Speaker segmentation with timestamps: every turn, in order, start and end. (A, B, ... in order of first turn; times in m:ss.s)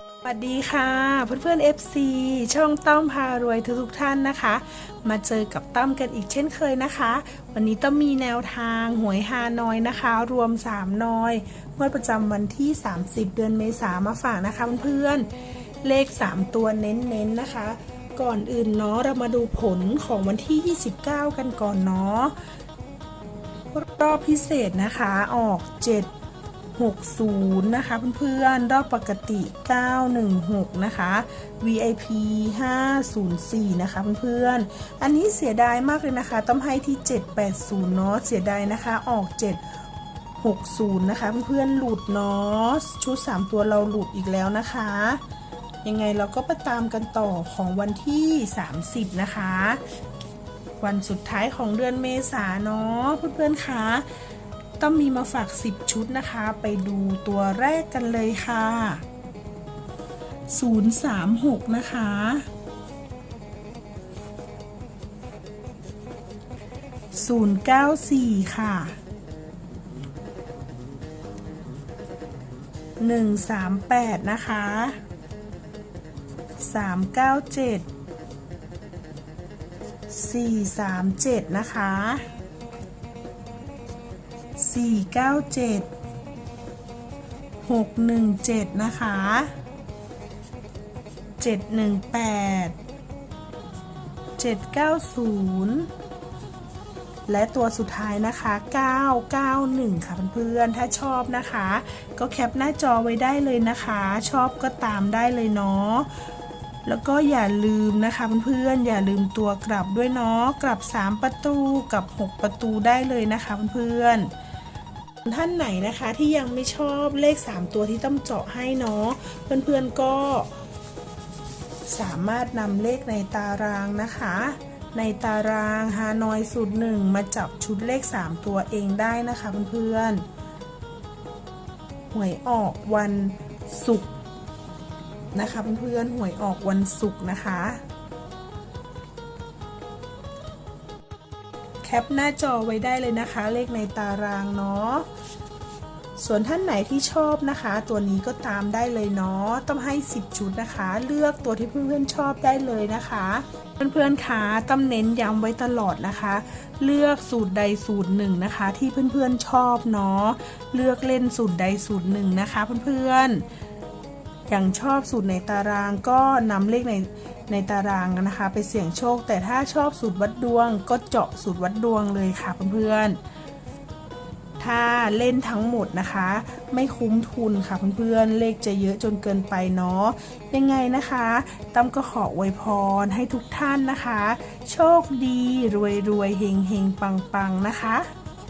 0:00.2-0:15.3 A
0:15.8-0:22.3 A
0:23.7-0:26.1 A
0:26.7-0:39.6 A
0:40.4-0:45.2 A
0:45.8-0:49.8 A
0:50.8-0:54.1 A
0:54.8-0:59.0 A
1:00.5-1:02.5 A
1:07.1-1:09.0 A
1:13.0-1:15.0 A
1:16.6-1:17.8 A
1:20.1-1:22.3 A
1:24.6-1:25.9 A
1:27.6-1:29.5 A
1:31.4-1:32.7 A
1:34.4-1:35.9 A
1:37.3-1:46.1 A
1:46.8-1:54.3 A
1:55.2-2:00.5 A
2:01.9-2:10.2 A
2:12.1-2:14.1 A
2:15.3-2:17.8 A
2:21.8-2:25.1 A
2:26.2-2:43.4 A
2:44.5-2:53.2 A
2:54.6-3:08.1 A